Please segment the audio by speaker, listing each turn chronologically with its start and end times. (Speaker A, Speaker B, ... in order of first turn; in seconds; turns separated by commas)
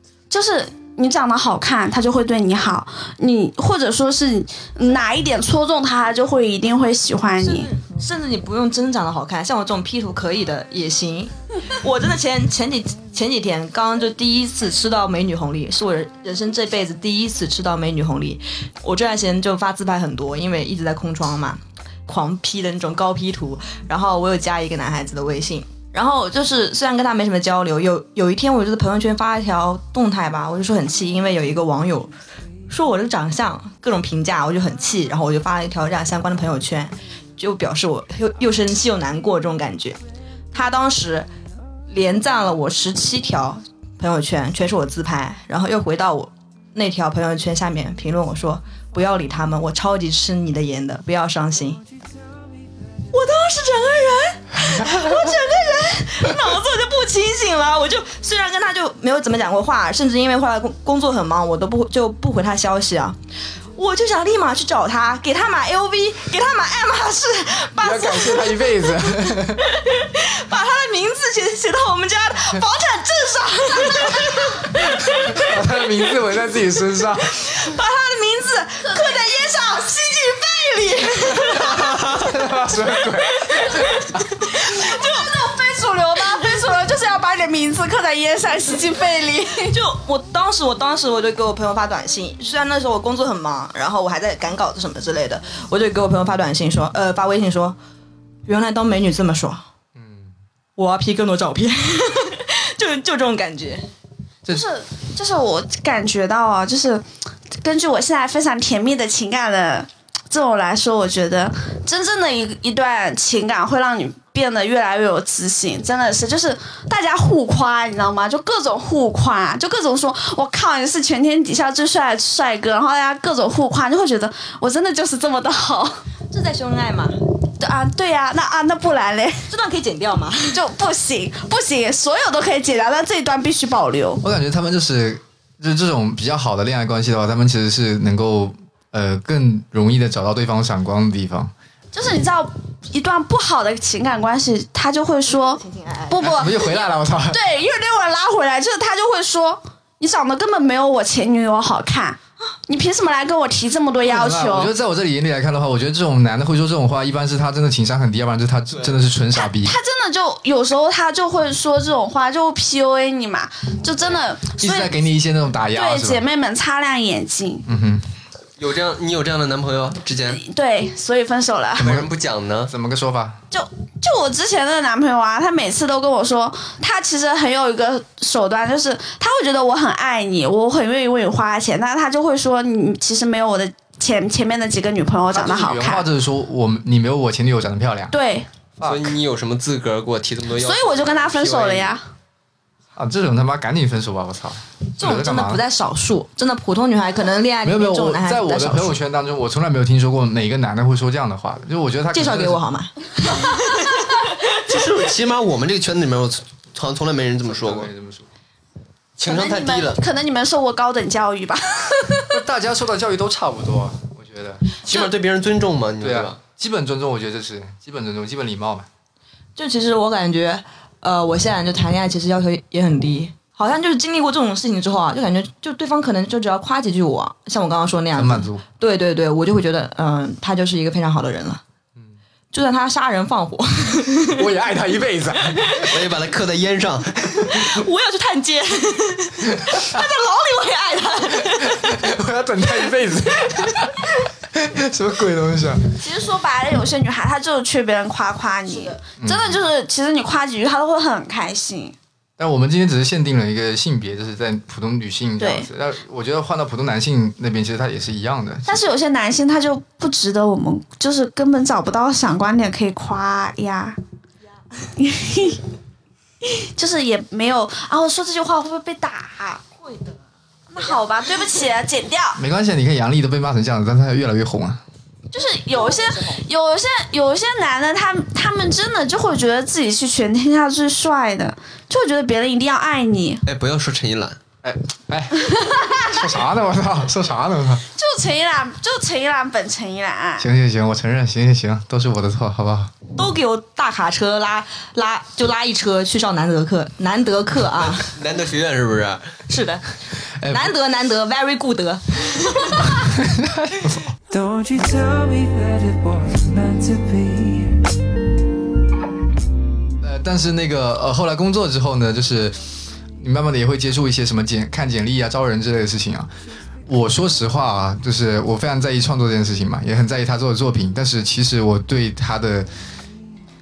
Speaker A: 0.3-7.7, Speaker B: 7.4-32.1, Speaker B: 32.7-40.0, Speaker B: 40.5-41.3, Speaker B: 41.9-51.8, Speaker B: 53.1-63.2, Speaker B: 63.8-75.5, Speaker C: 67.8-69.7, Speaker C: 75.1-77.5, Speaker B: 77.3-82.3, Speaker C: 81.4-84.2, Speaker B: 83.0-85.4, Speaker A: 84.7-89.8, Speaker B: 89.6-97.8, Speaker B: 98.5-99.6, Speaker C: 100.0-100.3, Speaker B: 100.8-103.9, Speaker A: 104.5-107.0, Speaker A: 107.6-126.0, Speaker B: 126.3-127.2, Speaker A: 127.6-129.5, Speaker B: 129.5-130.6, Speaker A: 130.5-134.2, Speaker C: 134.2-141.5, Speaker A: 141.9-154.7, Speaker B: 145.3-146.5, Speaker C: 146.2-147.4, Speaker C: 154.1-159.7, Speaker A: 159.4-164.9, Speaker C: 164.5-166.2, Speaker A: 165.7-167.7, Speaker C: 167.7-168.1, Speaker D: 168.6-170.4, Speaker A: 170.3-171.9, Speaker C: 171.8-172.1, Speaker D: 171.8-172.7, Speaker C: 172.7-173.4, Speaker A: 173.5-186.1, Speaker C: 185.3-188.1, Speaker A: 188.1-188.5, Speaker C: 188.8-189.2, Speaker D: 188.8-192.0, Speaker A: 190.6-192.0, Speaker C: 193.0-195.6, Speaker B: 195.0-198.9, Speaker C: 197.6-202.6, Speaker B: 202.1-204.5, Speaker D: 204.6-207.9, Speaker C: 207.4-208.3, Speaker D: 209.2-210.0, Speaker A: 209.2-212.3, Speaker C: 212.3-214.6, Speaker D: 214.8-216.4, Speaker C: 216.0-218.9, Speaker B: 219.6-231.6, Speaker C: 228.1-228.6, Speaker B: 232.5-234.5, Speaker C: 234.3-235.9, Speaker B: 235.5-235.9, Speaker D: 235.8-237.6, Speaker B: 237.5-242.1, Speaker C: 241.6-246.0, Speaker A: 246.0-252.0, Speaker C: 249.2-249.6, Speaker C: 252.4-258.8, Speaker A: 255.4-255.7, Speaker A: 258.7-264.0, Speaker A: 265.0-265.6, Speaker A: 266.6-269.6, Speaker B: 269.8-270.1, Speaker A: 270.7-272.4, Speaker C: 272.4-274.8, Speaker A: 275.3-283.4, Speaker B: 275.7-276.4, Speaker D: 283.5-284.4, Speaker C: 284.6-287.8, Speaker A: 285.5-286.2, Speaker A: 287.9-290.5, Speaker C: 290.4-292.9, Speaker B: 293.1-298.1, Speaker D: 298.0-299.3, Speaker B: 299.5-299.9, Speaker C: 300.4-300.7, Speaker B: 300.5-303.0, Speaker C: 302.9-304.1, Speaker E: 304.3-307.9, Speaker C: 310.0-316.3, Speaker C: 316.9-322.7